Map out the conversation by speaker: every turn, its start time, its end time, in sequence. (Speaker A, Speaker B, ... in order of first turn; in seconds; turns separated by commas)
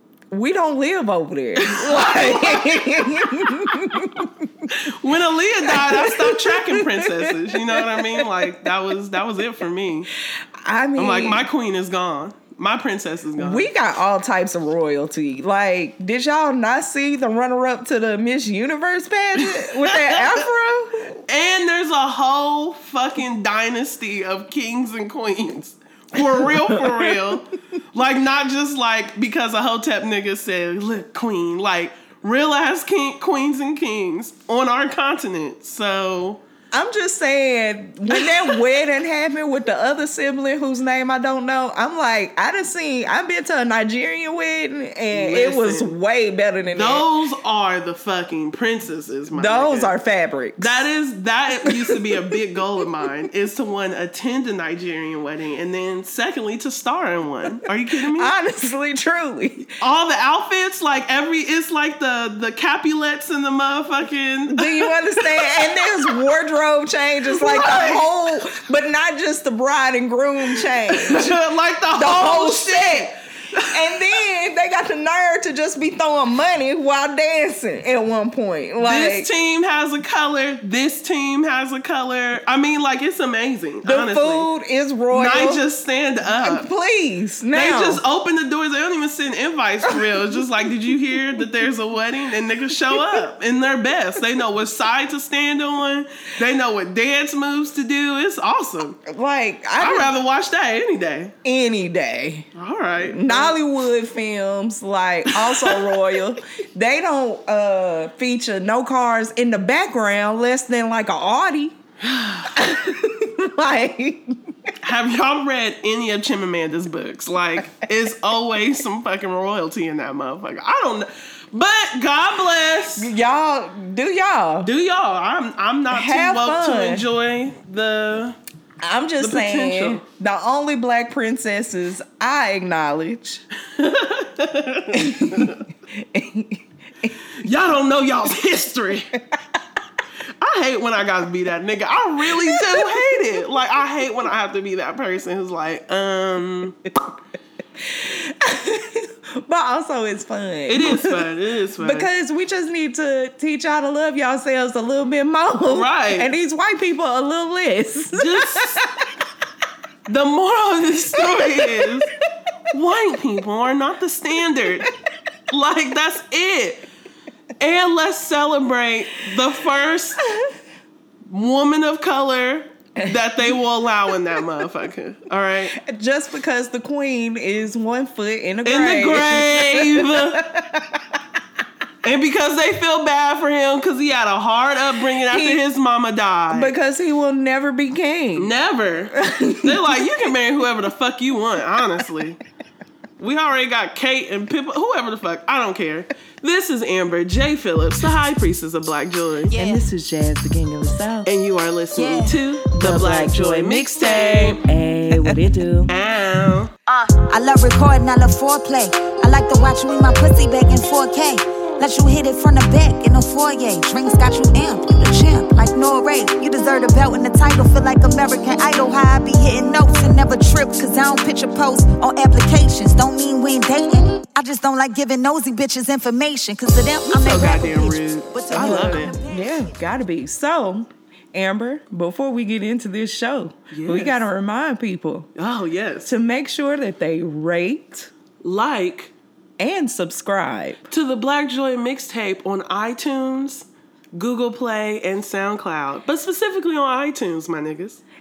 Speaker A: 0.3-4.7, Speaker B: 1.6-4.0, Speaker B: 4.7-10.1, Speaker A: 5.6-8.3, Speaker A: 10.3-11.4, Speaker B: 11.0-13.7, Speaker A: 13.4-21.2, Speaker B: 19.6-20.4, Speaker B: 21.3-36.4, Speaker A: 26.3-27.2, Speaker A: 36.7-47.0, Speaker B: 38.2-38.5, Speaker B: 45.1-45.9, Speaker B: 46.7-49.9, Speaker A: 49.3-50.8, Speaker B: 50.6-58.3, Speaker A: 51.6-52.2, Speaker A: 58.1-59.7, Speaker B: 59.8-66.1, Speaker A: 64.5-71.4, Speaker B: 67.3-68.1, Speaker B: 70.5-74.0, Speaker A: 72.0-79.3, Speaker B: 78.8-84.5, Speaker A: 83.8-85.6, Speaker B: 85.1-86.7, Speaker A: 86.2-88.0, Speaker B: 87.5-99.0, Speaker A: 99.0-100.1, Speaker B: 99.8-101.3, Speaker A: 101.4-102.5, Speaker B: 102.5-103.5, Speaker A: 103.0-111.8, Speaker B: 105.3-106.1, Speaker B: 112.0-112.5, Speaker A: 112.5-114.5, Speaker B: 114.8-123.1, Speaker A: 123.0-124.7, Speaker B: 124.6-128.4, Speaker A: 125.9-127.0, Speaker A: 128.8-133.4, Speaker B: 129.2-130.0, Speaker B: 133.7-135.6, Speaker A: 134.9-137.1, Speaker B: 137.3-139.1, Speaker B: 140.4-146.8, Speaker A: 142.3-143.0, Speaker A: 147.8-151.2, Speaker B: 150.7-152.1, Speaker A: 151.8-159.1, Speaker B: 155.7-156.3, Speaker B: 158.1-158.9, Speaker B: 160.1-162.1, Speaker A: 161.1-162.1, Speaker B: 162.7-164.9, Speaker B: 165.5-166.9, Speaker B: 167.6-170.3, Speaker B: 171.3-175.8, Speaker A: 175.7-181.2, Speaker B: 178.6-180.4, Speaker B: 182.0-186.7, Speaker A: 185.2-185.6, Speaker A: 186.5-188.5, Speaker B: 188.4-192.4, Speaker A: 189.1-190.2, Speaker B: 193.2-199.5, Speaker C: 199.5-199.9, Speaker A: 199.5-201.3, Speaker B: 201.2-204.6, Speaker C: 202.0-202.4, Speaker A: 202.7-205.9, Speaker B: 205.9-206.7, Speaker C: 206.9-229.7, Speaker B: 227.1-229.2, Speaker A: 228.5-235.3, Speaker B: 233.7-234.2, Speaker B: 235.4-236.1, Speaker A: 236.1-238.1, Speaker B: 238.4-239.1, Speaker A: 239.6-240.8, Speaker B: 240.9-248.0